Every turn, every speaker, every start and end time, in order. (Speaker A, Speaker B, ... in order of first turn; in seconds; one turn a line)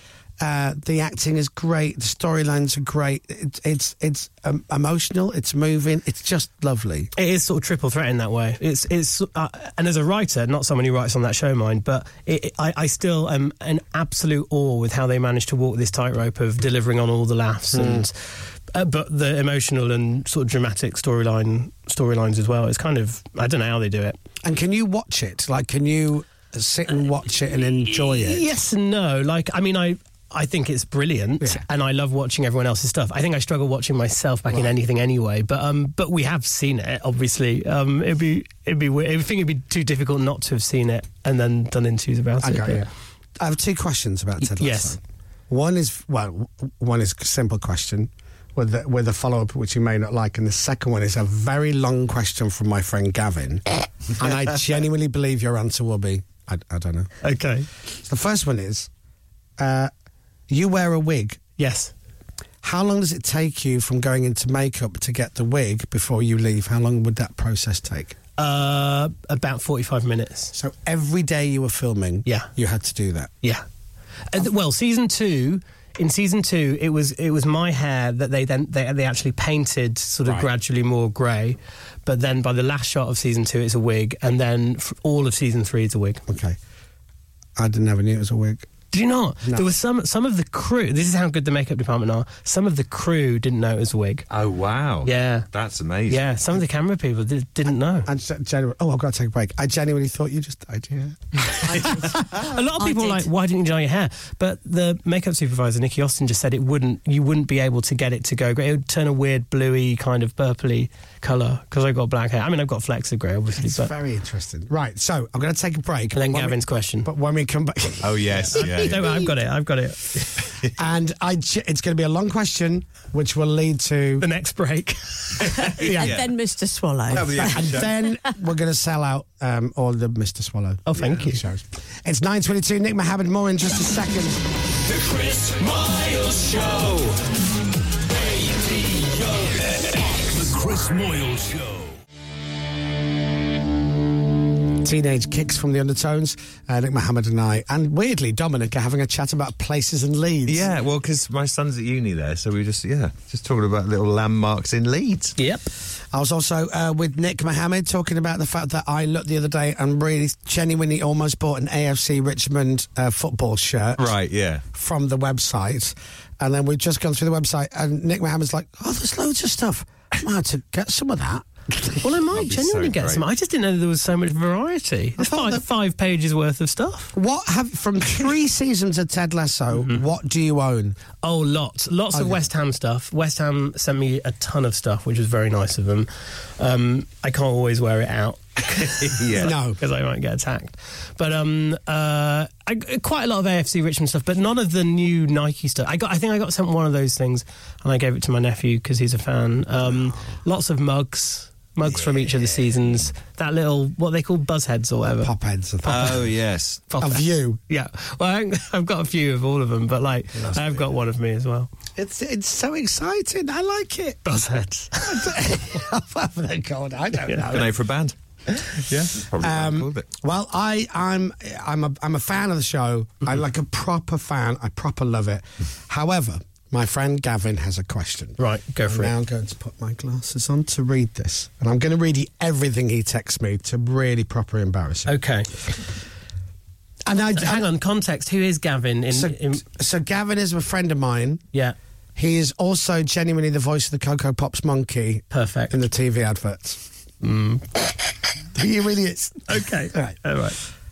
Speaker A: 0.4-7.1
Speaker B: 7.2-18.2
Speaker A: 17.7-18.1
Speaker B: 18.7-24.2
Speaker A: 24.4-28.5
Speaker B: 27.9-42.9
Speaker A: 42.4-57.1
Speaker B: 44.4-45.0
Speaker B: 57.2-57.7
Speaker A: 58.0-58.9
Speaker A: 59.6-59.9
Speaker A: 60.5-61.4
Speaker B: 61.6-61.9
Speaker A: 62.6-68.2
Speaker B: 68.4-70.5
Speaker A: 70.5-73.3
Speaker B: 74.3-86.2
Speaker A: 86.3-86.6
Speaker A: 87.5-88.7
Speaker B: 88.9-94.2
Speaker C: 94.3-96.3
Speaker B: 95.0-95.5
Speaker B: 96.1-98.1
Speaker A: 98.0-101.7
Speaker D: 101.7-102.1
Speaker B: 101.8-113.9
Speaker D: 102.8-103.3
Speaker A: 113.6-118.7
Speaker B: 116.1-117.1
Speaker C: 118.0-119.2
Speaker B: 118.5-120.5
Speaker A: 120.8-124.3
Speaker B: 124.2-125.5
Speaker D: 125.5-127.6
Speaker C: 125.6-126.3
Speaker C: 127.1-127.9
Speaker A: 127.5-134.4
Speaker B: 130.9-131.4
Speaker C: 131.0-131.2
Speaker E: 134.8-137.2
Speaker E: 138.1-139.5
Speaker F: 139.7-142.0
Speaker A: 144.8-150.6
Speaker C: 150.4-155.3
Speaker B: 155.4-155.7
Speaker A: 156.1-164.1
Speaker C: 164.0-164.6
Speaker A: 164.7-172.0
Speaker B: 172.0-177.1
Speaker C: 172.3-173.2
Speaker A: 175.2-175.6
Speaker A: 177.1-181.0
Speaker B: 181.2-205.3
Speaker A: 182.1-182.4
Speaker C: 189.0-189.5
Speaker A: 189.4-189.8
Speaker A: 205.2-206.3
Speaker C: 205.8-206.8
Speaker B: 205.9-206.2
Speaker B: 206.9-211.7
Speaker A: 207.0-207.6
Speaker A: 210.4-210.8
Speaker A: 211.9-214.2
Speaker B: 214.2-215.3
Speaker A: 215.0-217.7
Speaker C: 217.4-220.1
Speaker A: 219.4-235.2
Speaker B: 228.4-229.1
Speaker B: 235.1-235.5
Speaker A: 237.1-237.7
Speaker B: 237.4-239.6
Speaker A: 239.1-241.4
Speaker A: 242.2-246.8
Speaker B: 245.3-245.7
Speaker B: 247.2-247.9
Speaker A: 248.5-250.2
Speaker B: 249.5-250.6